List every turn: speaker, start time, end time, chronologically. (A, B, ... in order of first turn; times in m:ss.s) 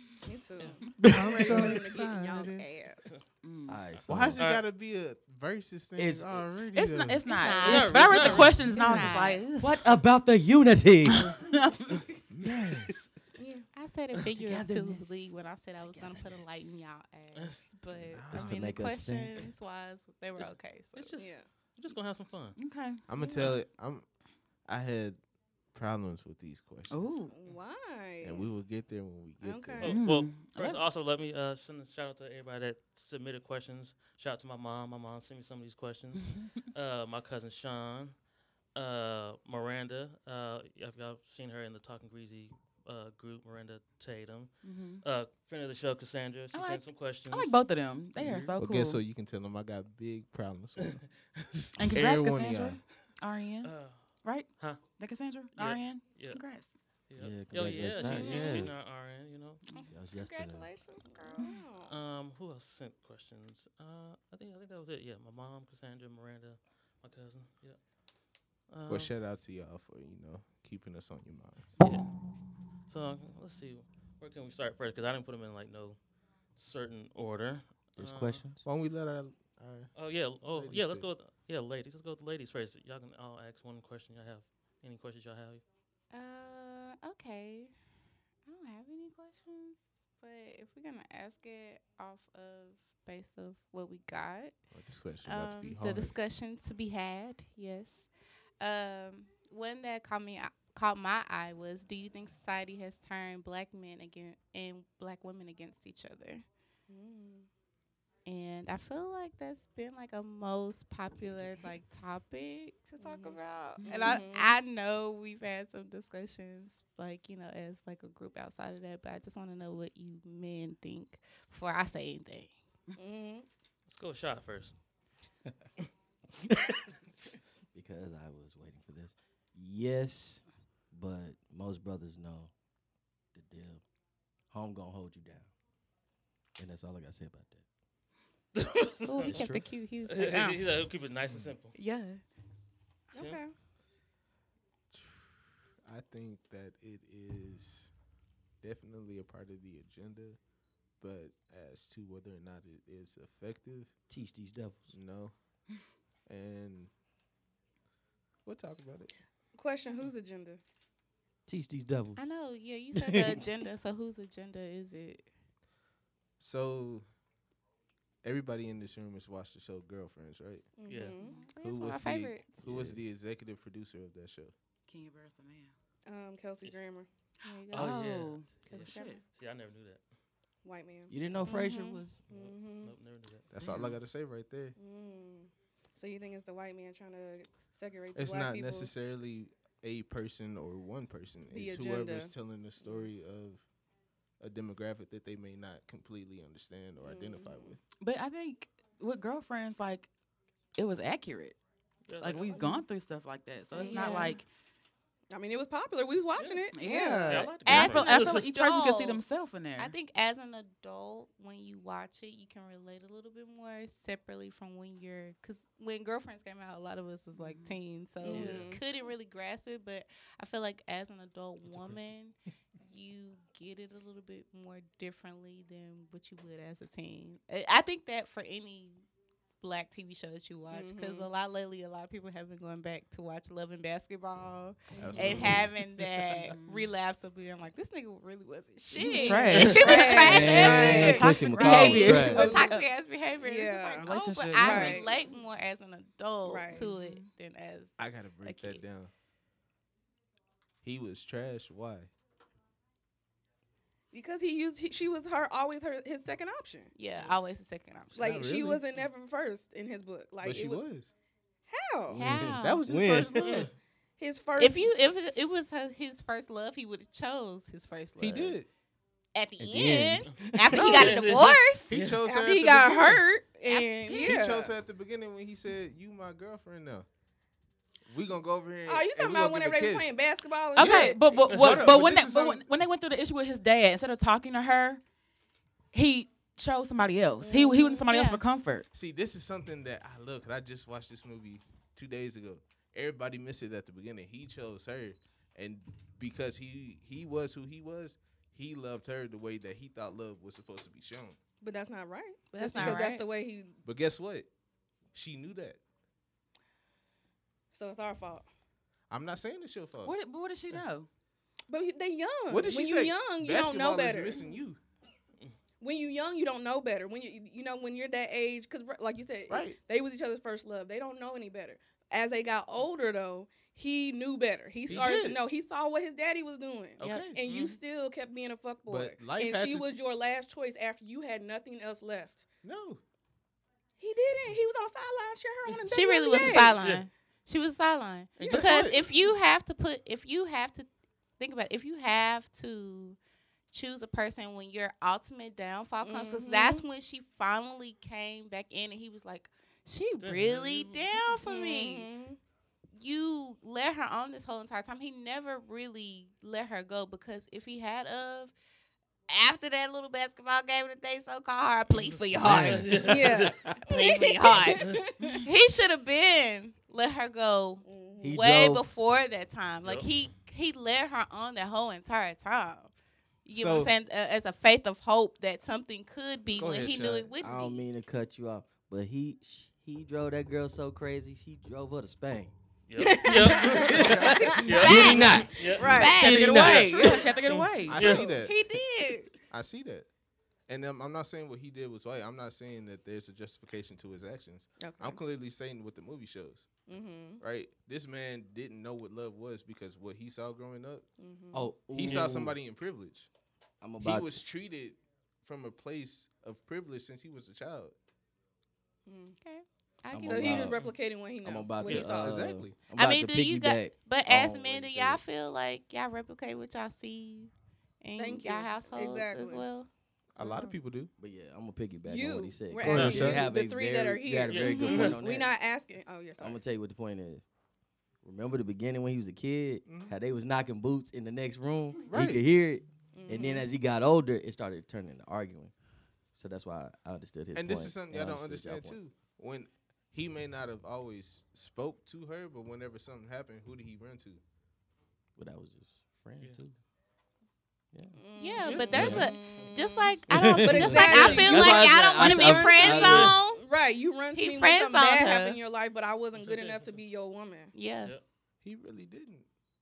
0:00.2-0:03.2 A
0:01.0-0:01.8 B
0:01.1-0:02.7 C
0:03.4-0:03.8 D
0:03.7-0:04.4 B
0:04.1-0:07.2 C
0:04.4-0:04.6 E
0:06.0-0:06.4 B
0:06.7-0:09.8 D
0:07.2-0:09.5 F
0:07.6-0:09.0 E
0:09.5-0:11.4 B
0:11.2-0:11.9 D
0:12.3-0:12.9 C
0:12.4-0:12.9 B
0:13.4-0:13.7 A
0:13.7-0:21.3 F
0:14.3-0:16.6 B
0:18.0-0:18.8 C
0:18.3-0:19.5 B
0:20.4-0:22.6 E
0:21.2-0:21.5 A
0:22.6-0:23.0 D
0:23.1-0:24.1 C
0:23.2-0:23.6 A
0:24.6-0:27.2 C
0:26.9-0:27.3 D
0:27.3-0:28.5 A
0:28.2-0:29.9 C
0:29.4-0:30.0 A
0:29.8-0:47.6 E
0:29.8-0:30.8 D
0:44.6-0:45.0 D
0:46.5-0:49.0 D
0:48.6-0:51.1 C
0:51.8-0:56.8 D
0:51.9-0:52.8 C
0:53.6-0:54.8 E
0:55.5-0:56.5 E
0:57.1-0:59.6 E
0:57.2-0:58.7 B
0:58.1-0:58.5 A
0:59.7-1:01.6 F
0:59.9-1:00.8 B
1:01.2-1:01.9 A
1:01.9-1:09.1 E
1:08.9-1:11.8 C
1:11.8-1:12.1 E
1:12.9-1:18.4 E
1:18.0-1:18.6 B
1:18.6-1:21.1 C
1:20.0-1:25.6 E
1:26.1-1:27.8 F
1:28.4-1:34.6 F
1:34.7-1:36.2 C
1:35.2-1:46.4 F
1:46.9-1:47.5 A
1:48.2-2:02.6 F
1:53.0-1:54.6 A
1:53.8-1:54.1 D
2:03.0-2:03.5 A
2:03.9-2:04.8 E
2:07.7-2:12.5 B
2:13.3-2:13.8 B
2:14.4-2:15.5 B
2:16.6-2:17.7 B
2:18.6-2:19.4 E
2:19.0-2:20.8 F
2:19.2-2:19.8 B
2:20.1-2:21.8 E
2:21.3-2:21.5 C
2:21.8-2:22.2 F
2:23.1-2:23.5 A
2:24.9-2:27.9 C
2:28.6-2:30.4 C
2:31.0-2:34.0 C
2:34.1-2:35.0 B
2:34.9-2:35.8 C
2:36.3-2:36.9 C
2:38.4-2:39.2 C
2:39.5-2:40.6 A
2:41.5-2:42.3 B
2:42.2-2:45.3 F
2:43.0-2:43.4 B
2:46.4-2:47.0 C
2:48.2-2:50.7 C
2:50.8-2:51.4 A
2:50.9-2:51.2 E
2:51.4-2:52.8 F
2:51.6-2:54.5 C
2:52.6-2:53.0 B
2:54.9-2:55.7 D
2:56.1-2:57.1 A
2:57.4-2:57.9 F
2:57.6-2:59.2 D
2:57.7-3:00.0 E
2:58.7-2:59.2 F
3:00.6-3:01.2 A
3:01.1-3:02.2 B
3:01.4-3:02.0 F
3:02.3-3:03.5 E
3:02.3-3:03.0 A
3:03.5-3:04.8 C
3:04.8-3:08.9 A
3:08.2-3:13.7 C
3:11.5-3:12.3 A
3:14.4-3:17.8 C
3:17.0-3:17.8 A
3:18.0-3:20.1 D
3:20.8-3:21.6 D
3:22.1-3:22.7 E
3:22.2-3:24.5 D
3:22.5-3:22.8 A
3:23.7-3:24.4 F
3:23.7-3:24.4 A
3:25.3-3:27.5 A
3:26.4-3:26.6 E
3:26.7-3:29.9 D
3:27.3-3:28.4 E
3:27.6-3:29.2 F
3:29.8-3:49.0 F
3:37.4-3:37.8 D
3:38.2-3:38.8 A
3:38.3-3:38.8 E
3:49.6-4:08.8 F
3:50.7-3:51.3 A
3:55.0-3:56.1 C
3:55.1-3:55.4 A
3:56.5-3:56.9 D
3:59.0-4:00.2 D
3:59.0-4:02.9 A
4:00.2-4:02.5 B
4:00.8-4:02.8 D
4:03.4-4:05.3 A
4:04.0-4:05.1 D
4:06.4-4:06.8 A
4:06.7-4:07.3 D
4:08.0-4:09.1 C
4:10.8-4:12.1 C
4:14.1-4:16.9 A
4:17.0-4:18.6 F
4:18.2-4:20.8 A
4:18.2-4:18.8 C
4:20.4-4:21.1 C
4:21.7-4:22.2 A
4:22.1-4:23.7 B
4:22.2-4:22.8 F
4:22.6-4:23.7 C
4:24.2-4:24.9 A
4:24.6-4:28.6 F
4:28.2-4:28.7 C
4:29.3-4:32.1 F
4:29.6-4:31.1 B
4:29.6-4:30.2 C
4:30.7-4:31.2 C
4:30.8-4:32.2 E
4:31.9-4:33.2 C
4:32.2-4:34.7 A
4:33.7-4:34.3 F
4:34.2-4:37.1 C
4:38.1-4:40.1 C
4:38.9-4:41.7 A
4:40.8-4:45.0 D
4:40.8-4:42.7 C
4:45.9-4:48.9 D
4:47.4-4:48.4 F
4:48.9-5:01.4 C
5:01.6-5:03.8 A
5:02.5-5:03.3 F
5:03.8-5:04.5 C
5:05.1-5:05.8 C
5:07.7-5:08.5 A
5:09.1-5:10.2 C
5:10.0-5:11.1 D
5:11.7-5:14.5 A
5:12.5-5:14.8 C
5:15.8-5:32.5 A
5:19.5-5:19.8 C
5:24.9-5:25.4 C
5:27.0-5:27.4 C
5:27.0-5:27.3 F
5:27.4-5:27.8 E
5:28.9-5:29.9 C
5:32.6-5:33.0 C
5:34.0-5:36.8 A
5:35.9-5:43.2 F
5:36.8-5:37.0 E
5:38.4-5:39.1 A
5:38.4-5:39.1 C
5:43.7-5:52.1 F
5:46.0-5:46.8 A
5:50.2-5:51.2 E
5:51.4-5:52.4 A
5:53.0-5:58.5 F
5:59.3-6:03.0 F
6:02.4-6:05.0 E
6:02.4-6:03.0 C
6:03.0-6:05.4 A
6:03.9-6:12.9 F
6:07.8-6:08.4 A
6:08.2-6:08.9 B
6:09.8-6:10.1 E
6:13.4-6:17.8 F
6:13.5-6:13.9 C
6:16.5-6:17.3 C
6:17.4-6:22.5 B
6:22.9-6:25.9 E
6:23.0-6:24.7 A
6:23.9-6:27.0 B
6:24.0-6:24.5 C
6:24.7-6:26.8 F
6:25.2-6:27.3 A
6:26.2-6:28.0 D
6:27.9-6:28.6 C
6:27.9-6:28.3 E
6:28.0-6:29.3 A
6:29.5-6:30.1 C
6:30.7-6:36.8 C
6:34.8-6:35.2 A
6:36.9-6:37.4 A
6:37.4-6:41.1 C
6:41.2-6:41.8 A
6:41.5-6:42.6 B
6:41.9-6:43.3 C
6:42.0-6:42.3 E
6:43.8-6:44.4 B
6:44.0-6:48.0 C
6:49.1-6:49.4 A
6:49.4-6:50.8 F
6:50.1-6:55.2 B
6:50.2-6:52.6 A
6:51.8-6:52.1 E
6:52.2-6:52.8 C
6:53.0-6:59.9 F
6:58.2-6:59.7 A
7:00.3-7:01.1 C
7:01.2-7:05.5 B
7:02.0-7:06.6 A
7:02.8-7:03.4 C
7:02.9-7:03.4 E
7:04.4-7:05.2 E
7:06.4-7:07.4 B
7:08.2-7:15.7 B
7:09.8-7:10.1 C
7:12.1-7:12.4 C
7:13.1-7:13.7 A
7:16.3-7:19.0 B
7:17.5-7:24.4 C
7:25.4-7:26.8 B
7:27.9-7:28.2 B
7:28.2-7:37.7 A
7:28.4-7:33.7 F
7:28.7-7:29.6 E
7:28.8-7:29.3 B
7:30.3-7:33.4 B
7:31.0-7:31.9 E
7:32.8-7:33.4 E
7:34.3-7:35.6 F
7:36.4-7:37.0 E
7:37.7-7:38.1 F
7:38.6-7:39.5 C